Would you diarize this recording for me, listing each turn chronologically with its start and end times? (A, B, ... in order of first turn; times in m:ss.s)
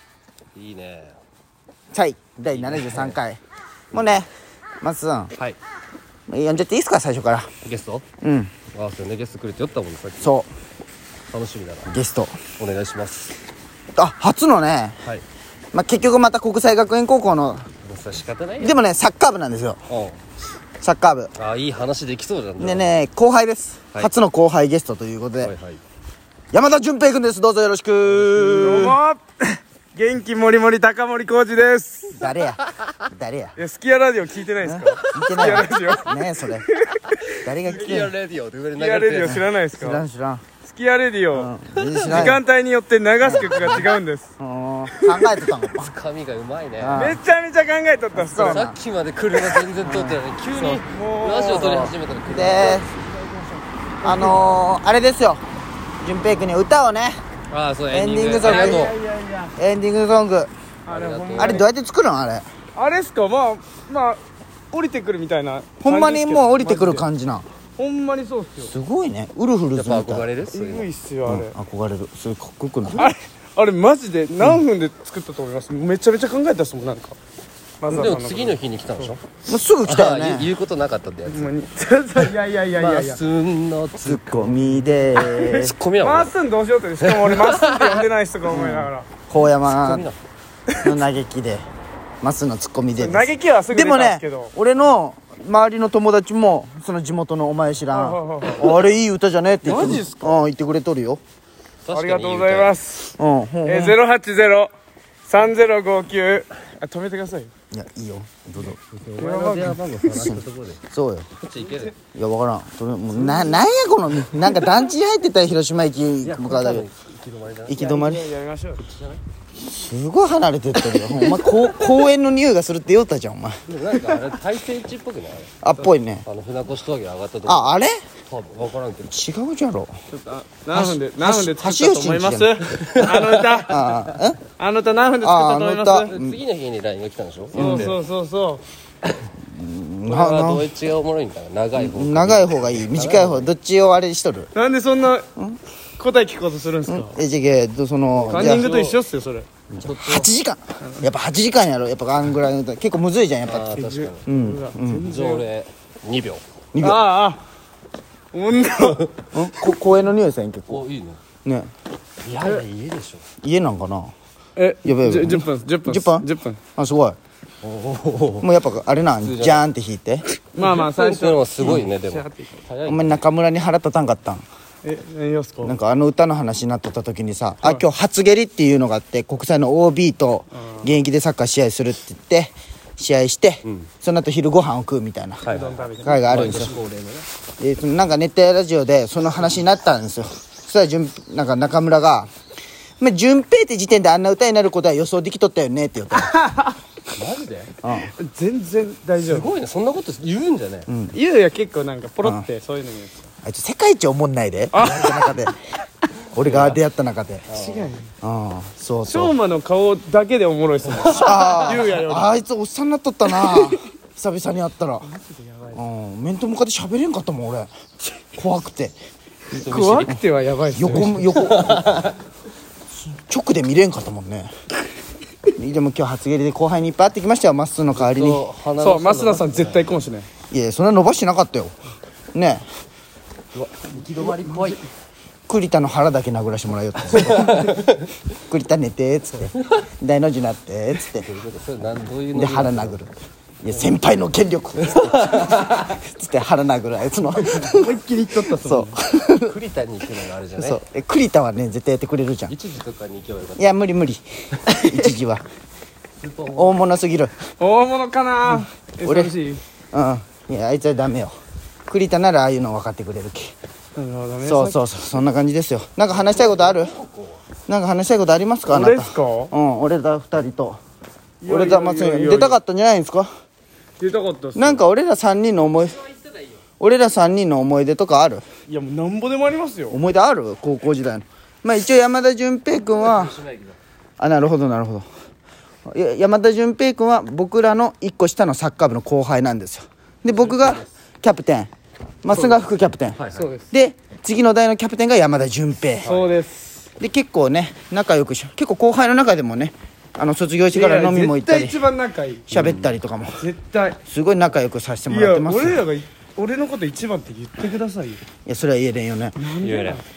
0:00.5-0:01.2 A
0:01.9-0:03.4 B
0:02.5-0:03.2 A
0:03.9-0:04.3 B
0:03.9-0:04.2 A
0:04.8-0:05.3 B
0:06.3-0:07.5 B
0:07.6-0:08.0 A
0:08.2-0:08.5 B
0:08.7-0:10.3 A
0:10.2-0:10.5 B
0:11.3-0:11.9 A
0:11.8-0:12.4 B
0:12.6-0:13.4 A
0:14.0-0:15.0 B
0:15.7-0:17.6 B
0:17.8-0:18.8 A
0:18.6-0:19.8 B
0:19.9-0:20.2 A
0:20.8-0:21.3 B
0:21.4-0:23.0 A
0:22.6-0:25.5 B
0:25.4-0:25.8 A
0:26.5-0:29.0 B
0:28.0-0:28.8 A
0:28.6-0:32.3 C
0:32.1-0:33.6 B
0:33.6-0:37.5 C
0:34.6-0:36.6 B
0:37.4-0:38.1 B
0:37.6-0:39.5 A
0:38.8-0:40.0 C
0:39.2-0:40.4 B
0:40.6-0:44.3 C
0:41.3-0:42.4 B
0:41.8-0:42.4 A
0:43.2-0:45.9 B
0:44.9-0:45.6 C
0:45.7-0:47.2 A
0:46.8-0:47.2 B
0:46.9-0:48.7 C
0:48.1-0:48.8 B
0:48.3-0:52.9 A
0:49.3-0:49.6 C
0:49.8-0:50.2 B
0:50.5-0:54.5 C
0:52.3-0:52.9 B
0:54.0-0:55.4 B
0:54.2-0:54.7 A
0:56.0-0:57.2 B
0:57.5-0:59.0 A
0:57.9-0:58.9 B
0:58.4-0:59.6 C
0:59.6-1:00.5 B
1:00.8-1:01.7 C
1:00.9-1:01.7 A
1:01.3-1:02.4 B
1:02.7-1:07.1 C
1:05.8-1:07.5 B
1:07.8-1:08.7 C
1:08.6-1:10.3 B
1:09.8-1:10.9 A
1:10.5-1:11.6 C
1:11.3-1:13.1 B
1:12.9-1:17.2 C
1:17.8-1:19.1 C
1:17.9-1:19.2 A
1:19.4-1:20.5 B
1:19.8-1:21.5 A
1:21.3-1:23.2 C
1:22.2-1:26.4 A
1:24.0-1:25.7 B
1:26.0-1:29.1 C
1:27.0-1:28.1 A
1:28.4-1:30.1 B
1:29.6-1:30.2 A
1:30.8-1:31.6 B
1:32.2-1:41.2 B
1:32.9-1:34.5 C
1:37.9-1:38.8 C
1:39.6-1:40.4 C
1:41.8-1:42.8 A
1:41.9-1:44.7 C
1:43.2-1:44.0 B
1:45.2-1:47.5 C
1:47.7-1:48.8 B
1:48.9-1:50.8 A
1:49.2-1:50.0 C
1:50.1-1:51.3 B
1:51.4-1:51.9 A
1:51.6-1:51.9 C
1:52.0-1:56.8 B
1:53.2-1:53.6 C
1:56.2-1:57.9 A
1:57.7-1:58.2 B
1:57.7-1:58.8 C
1:58.8-1:59.2 A
1:59.6-2:03.6 B
2:01.2-2:01.6 A
2:03.7-2:09.2 A
2:05.6-2:06.2 B
2:07.4-2:08.0 B
2:09.1-2:09.9 B
2:10.1-2:16.1 C
2:10.7-2:12.6 B
2:12.8-2:13.6 A
2:13.6-2:14.4 B
2:15.2-2:16.4 B
2:16.0-2:18.0 A
2:17.5-2:18.6 C
2:17.6-2:17.9 B
2:19.4-2:20.7 B
2:20.1-2:23.5 A
2:21.8-2:24.5 B
2:24.5-2:25.3 C
2:26.0-2:27.2 C
2:26.9-2:28.7 B
2:28.2-2:29.0 A
2:28.3-2:29.5 C
2:29.7-2:35.1 B
2:29.8-2:30.3 A
2:30.8-2:31.1 C
2:33.4-2:34.2 A
2:33.7-2:35.5 C
2:35.0-2:36.4 A
2:36.7-2:37.0 B
2:36.8-2:37.4 C
2:38.3-2:39.1 C
2:38.8-2:39.1 A
2:39.3-2:40.8 B
2:40.7-2:41.2 A
2:42.2-2:43.2 A
2:43.4-2:44.1 B
2:44.6-2:46.6 C
2:44.8-2:47.2 B
2:47.6-2:48.5 A
2:48.4-2:50.2 B
2:49.2-2:49.6 A
2:50.5-2:52.6 C
2:50.6-2:53.2 A
2:52.8-2:54.4 B
2:54.8-2:55.8 C
2:55.6-3:05.4 B
3:00.6-3:00.9 C
3:05.4-3:07.3 A
3:05.4-3:06.5 C
3:06.0-3:06.8 B
3:07.6-3:12.3 B
3:13.0-3:16.4 B
3:16.2-3:16.8 C
3:17.2-3:17.7 A
3:17.8-3:18.1 B
3:18.2-3:19.5 C
3:19.2-3:20.9 A
3:20.9-3:21.2 B
3:21.1-3:23.2 C
3:23.4-3:25.5 B
3:24.7-3:25.5 C
3:26.3-3:27.5 B
3:26.4-3:26.8 A
3:27.5-3:28.0 A
3:27.5-3:28.1 C
3:28.2-3:29.3 B
3:29.1-3:32.4 C
3:30.9-3:31.8 A
3:31.1-3:35.1 B
3:33.3-3:33.9 C
3:35.0-3:35.8 C
3:35.7-3:37.7 B
3:38.3-3:38.9 B
3:39.5-3:40.2 A
3:39.5-3:40.2 B
3:39.6-3:41.3 C
3:40.7-3:41.9 B
3:41.2-3:42.2 A
3:43.0-3:44.5 B
3:45.5-3:48.4 B
3:47.9-3:49.9 A
3:48.8-3:50.3 C
3:50.5-3:51.7 B
3:52.3-3:52.6 B
3:53.5-3:54.8 A
3:54.2-3:54.8 C
3:55.5-3:57.6 B
3:57.2-3:58.0 A
3:58.5-4:01.3 B
4:01.1-4:03.0 A
4:02.3-4:03.1 B
4:03.6-4:09.5 B
4:04.8-4:06.0 A
4:07.6-4:09.0 C
4:09.4-4:10.8 A
4:10.6-4:12.5 B
4:12.5-4:13.8 A
4:13.6-4:15.4 B
4:14.7-4:15.2 C
4:16.2-4:16.8 A
4:16.5-4:17.3 B
4:17.6-4:19.6 C
4:18.5-4:19.3 B
4:19.9-4:21.4 B
4:21.9-4:23.5 B
4:24.0-4:24.8 C
4:24.4-4:27.0 B
4:26.2-4:27.3 A
4:27.7-4:30.8 B
4:28.7-4:29.5 C
4:31.4-4:32.6 C
4:31.5-4:33.3 B
4:34.0-4:34.8 C
4:34.5-4:36.1 B
4:36.8-4:38.4 B
4:38.7-4:40.0 C
4:39.9-4:43.4 B
4:43.0-4:43.7 A
4:44.2-4:45.0 B
4:45.8-4:51.7 B
4:50.3-4:50.8 A
4:52.2-4:56.1 B
4:53.2-4:53.5 A
4:53.3-4:53.7 C
4:56.0-4:56.9 C
4:56.0-4:56.3 A
4:57.0-5:01.8 B
5:00.7-5:02.6 C
5:02.5-5:03.4 B
5:02.5-5:03.0 A
5:03.4-5:04.0 C
5:04.0-5:05.8 B
5:05.1-5:08.2 C
5:08.4-5:09.4 B
5:09.4-5:10.0 C
5:09.6-5:10.0 A